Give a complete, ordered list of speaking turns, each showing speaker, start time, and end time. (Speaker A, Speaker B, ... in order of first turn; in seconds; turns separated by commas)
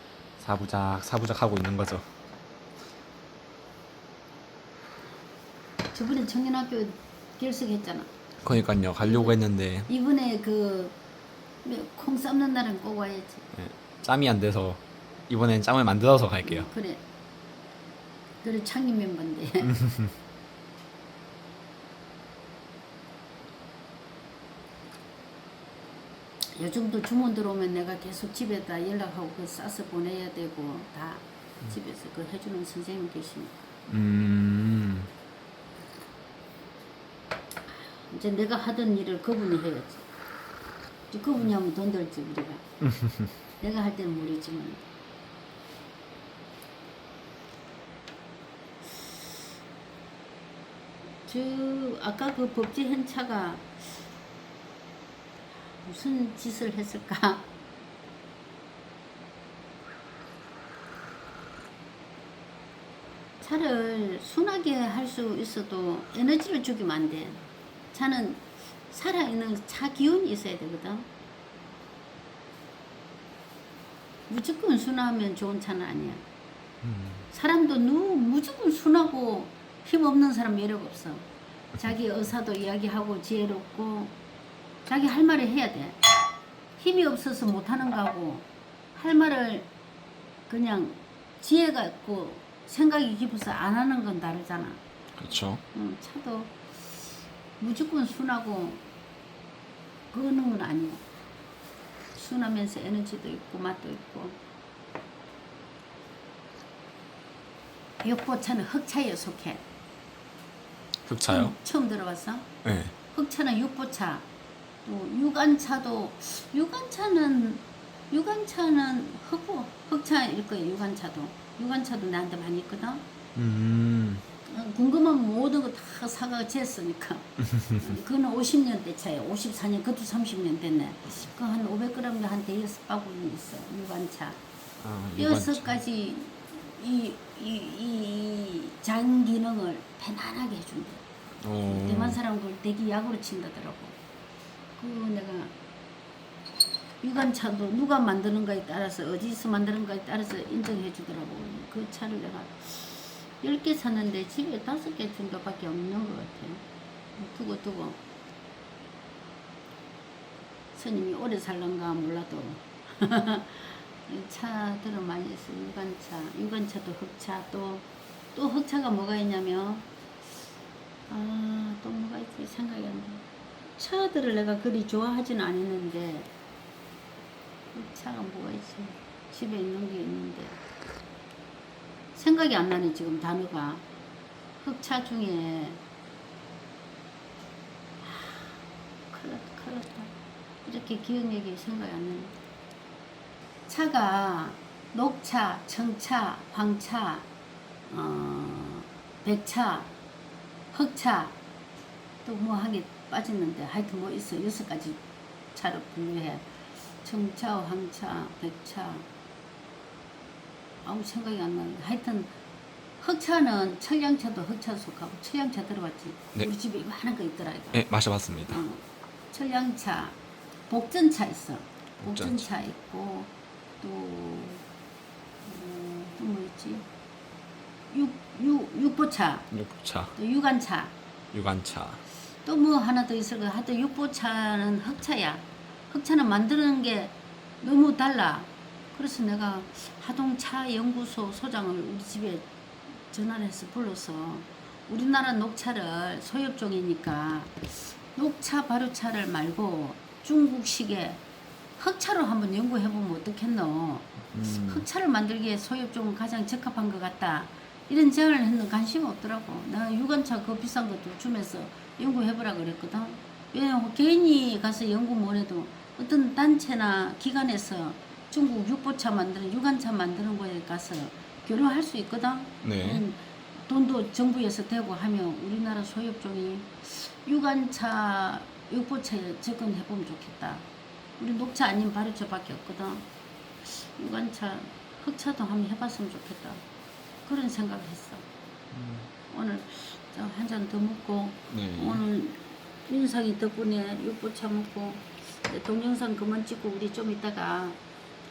Speaker A: 0.4-2.1, Speaker B: 5.9-8.1, Speaker A: 8.4-9.9, Speaker B: 9.0-11.0, Speaker B: 11.6-13.5, Speaker A: 13.5-16.7, Speaker B: 16.4-17.0, Speaker B: 18.4-19.8, Speaker B: 26.6-33.5, Speaker A: 33.9-35.1, Speaker B: 37.7-40.1, Speaker B: 41.1-42.7, Speaker A: 42.8-43.3, Speaker B: 43.6-44.8, Speaker B: 51.3-53.8, Speaker B: 55.7-57.5, Speaker B: 63.4-71.1, Speaker B: 74.3-76.2, Speaker A: 76.8-77.3, Speaker B: 77.3-84.2, Speaker B: 84.9-86.0, Speaker B: 86.8-89.7, Speaker B: 90.5-94.8, Speaker A: 95.2-95.6, Speaker B: 95.7-96.6, Speaker B: 97.6-98.8, Speaker B: 100.1-101.0, Speaker B: 102.2-104.4, Speaker B: 108.0-109.6, Speaker A: 111.1-111.6, Speaker B: 111.3-112.5, Speaker A: 112.6-112.9, Speaker B: 113.1-114.3, Speaker B: 114.8-123.0, Speaker A: 123.3-124.2, Speaker B: 124.5-134.4, Speaker A: 134.8-135.8, Speaker B: 135.2-141.0, Speaker A: 141.4-142.2, Speaker B: 141.7-144.0, Speaker B: 144.8-145.5, Speaker B: 147.0-156.6, Speaker B: 157.2-158.0, Speaker B: 160.7-169.9, Speaker B: 171.1-173.2, Speaker B: 173.8-176.3, Speaker B: 177.7-180.6, Speaker B: 182.2-183.8, Speaker B: 184.6-185.8, Speaker B: 188.0-190.1, Speaker B: 190.6-192.3, Speaker B: 193.7-197.3, Speaker B: 197.9-199.9, Speaker B: 200.7-201.4, Speaker B: 202.2-205.0, Speaker B: 205.5-206.5, Speaker B: 207.0-209.1, Speaker B: 210.8-212.3, Speaker B: 213.0-217.8, Speaker A: 217.7-218.6, Speaker B: 218.5-220.2, Speaker B: 220.7-224.6, Speaker A: 222.0-222.4, Speaker B: 225.5-226.8, Speaker B: 227.9-229.5, Speaker A: 229.5-230.2, Speaker B: 230.2-230.9, Speaker A: 231.3-232.0, Speaker B: 232.4-242.5, Speaker B: 243.0-251.2, Speaker B: 251.8-280.7, Speaker A: 254.3-254.8, Speaker A: 272.6-273.0, Speaker B: 281.2-283.1, Speaker B: 283.6-286.6, Speaker B: 287.2-288.2, Speaker A: 288.7-289.1, Speaker B: 289.3-297.8, Speaker A: 291.5-292.0